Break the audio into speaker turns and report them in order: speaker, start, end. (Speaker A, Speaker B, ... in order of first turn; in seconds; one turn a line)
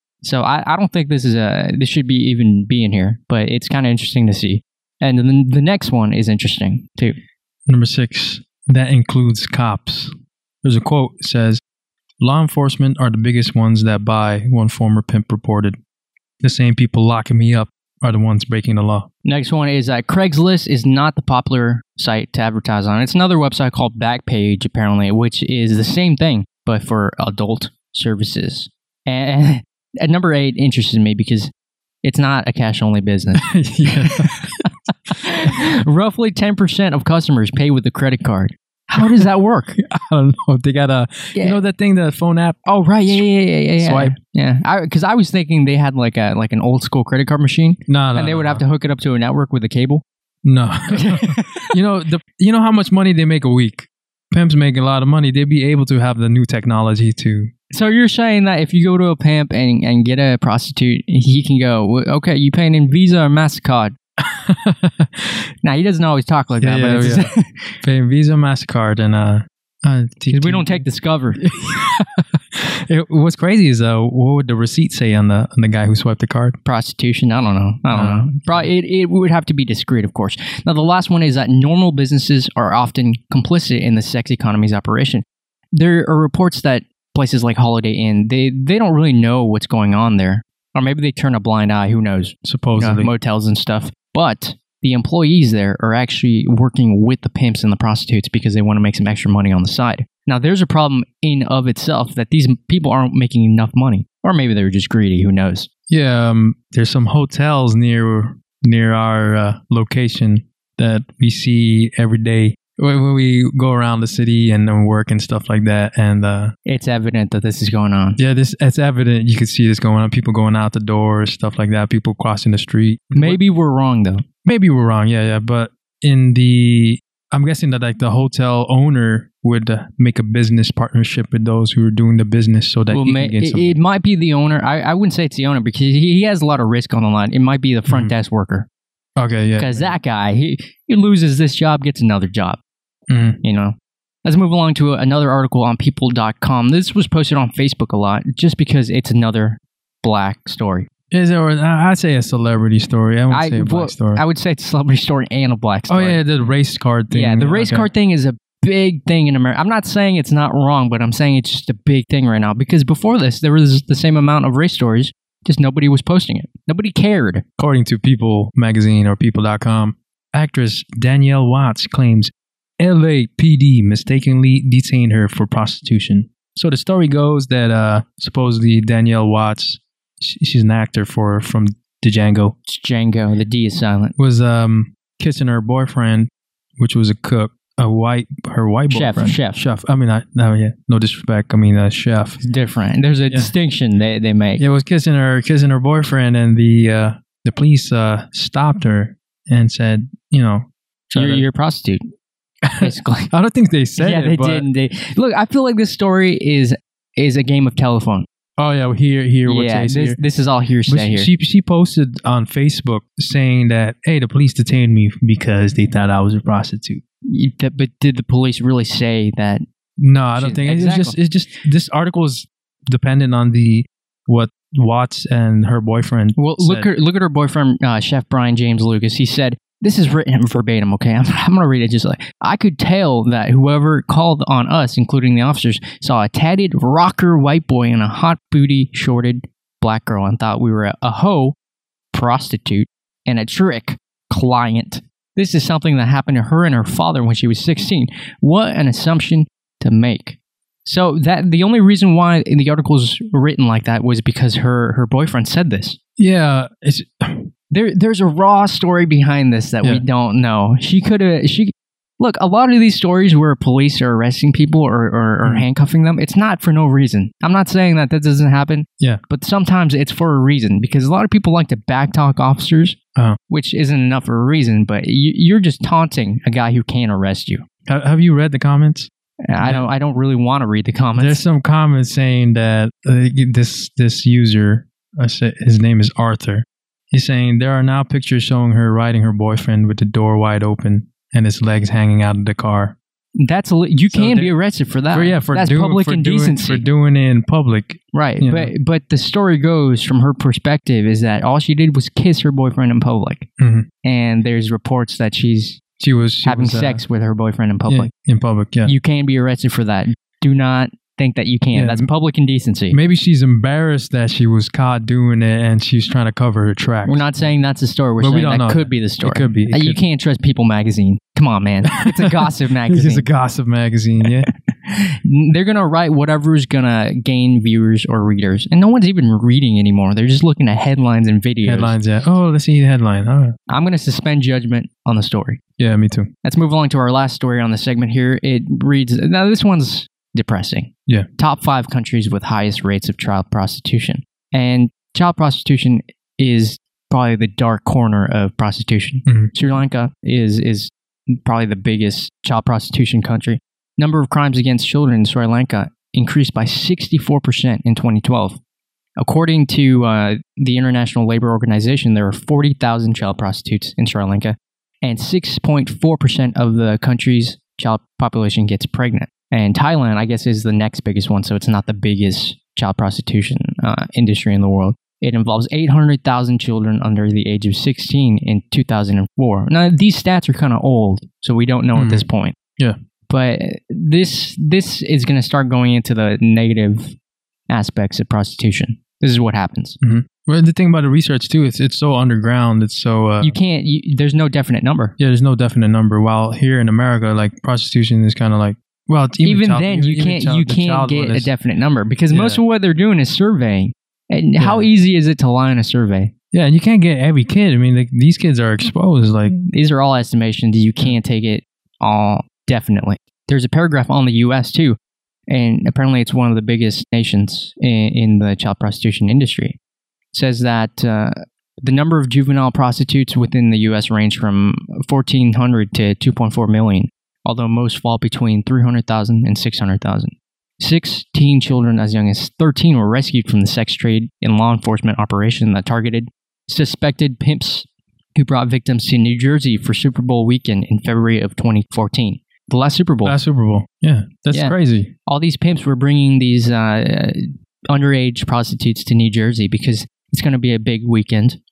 Speaker A: 0.2-7.2
Speaker B: 7.7-11.6
Speaker B: 12.2-15.8
Speaker B: 16.4-19.1
Speaker A: 19.2-31.5
Speaker A: 32.0-39.8
Speaker B: 33.4-34.7
Speaker B: 39.8-43.2
Speaker A: 42.7-50.0
Speaker B: 43.8-44.1
Speaker B: 47.9-48.6
Speaker B: 50.5-57.5
Speaker A: 50.9-51.7
Speaker A: 57.7-64.0
Speaker B: 64.2-65.4
Speaker A: 65.6-67.7
Speaker B: 66.6-67.3
Speaker B: 67.8-70.8
Speaker A: 70.3-71.4
Speaker B: 71.4-76.6
Speaker A: 76.7-85.2
Speaker B: 77.9-78.7
Speaker A: 85.8-105.7
Speaker B: 92.5-93.1
Speaker B: 105.9-116.5
Speaker A: 116.7-118.2
Speaker B: 118.2-123.4
Speaker A: 123.1-124.2
Speaker B: 124.5-133.8
Speaker A: 132.9-138.7
Speaker B: 139.2-139.9
Speaker A: 139.6-142.6
Speaker B: 143.1-143.4
Speaker A: 143.4-150.9
Speaker B: 151.1-154.2
Speaker A: 153.3-156.2
Speaker B: 155.9-157.9
Speaker A: 157.1-167.4
Speaker B: 167.6-182.6
Speaker A: 182.7-184.2
Speaker B: 184.2-192.4
Speaker A: 188.9-189.6
Speaker A: 192.4-194.6
Speaker B: 194.6-201.4
Speaker A: 201.1-202.0
Speaker B: 202.7-204.7
Speaker A: 202.8-203.3
Speaker A: 204.0-208.3
Speaker B: 208.6-210.2
Speaker A: 209.5-211.3
Speaker B: 210.9-217.0
Speaker A: 217.2-219.6
Speaker B: 220.0-226.9
Speaker A: 220.4-221.2
Speaker A: 226.4-241.6
Speaker A: 242.1-256.0
Speaker B: 256.2-257.5
Speaker A: 257.7-273.0
Speaker A: 273.5-277.6
Speaker B: 277.9-279.1
Speaker A: 279.5-281.4
Speaker B: 279.6-279.9
Speaker B: 281.2-293.0
Speaker A: 293.4-296.9
Speaker B: 294.1-294.5
Speaker B: 295.1-298.7
Speaker A: 298.1-303.5
Speaker B: 303.6-303.9
Speaker A: 304.0-305.8
Speaker B: 306.0-307.0
Speaker A: 306.4-308.1
Speaker B: 307.9-308.9
Speaker A: 308.9-313.0
Speaker B: 311.7-312.1
Speaker B: 312.9-317.3
Speaker A: 317.1-323.3
Speaker B: 318.2-320.0
Speaker B: 322.0-324.5
Speaker A: 324.5-332.0
Speaker B: 331.6-333.6
Speaker A: 333.7-335.6
Speaker B: 335.8-336.3
Speaker A: 336.4-358.6
Speaker B: 349.3-349.5
Speaker A: 359.2-382.6
Speaker B: 381.9-382.2
Speaker A: 383.3-387.1
Speaker A: 387.7-390.0
Speaker B: 390.0-393.6
Speaker A: 393.4-395.1
Speaker B: 395.2-401.5
Speaker A: 399.4-406.3
Speaker B: 402.3-402.6
Speaker B: 404.6-404.9
Speaker B: 406.5-409.5
Speaker A: 409.5-415.0
Speaker A: 415.5-419.8
Speaker A: 420.3-443.4
Speaker B: 443.2-445.1
Speaker A: 445.3-451.6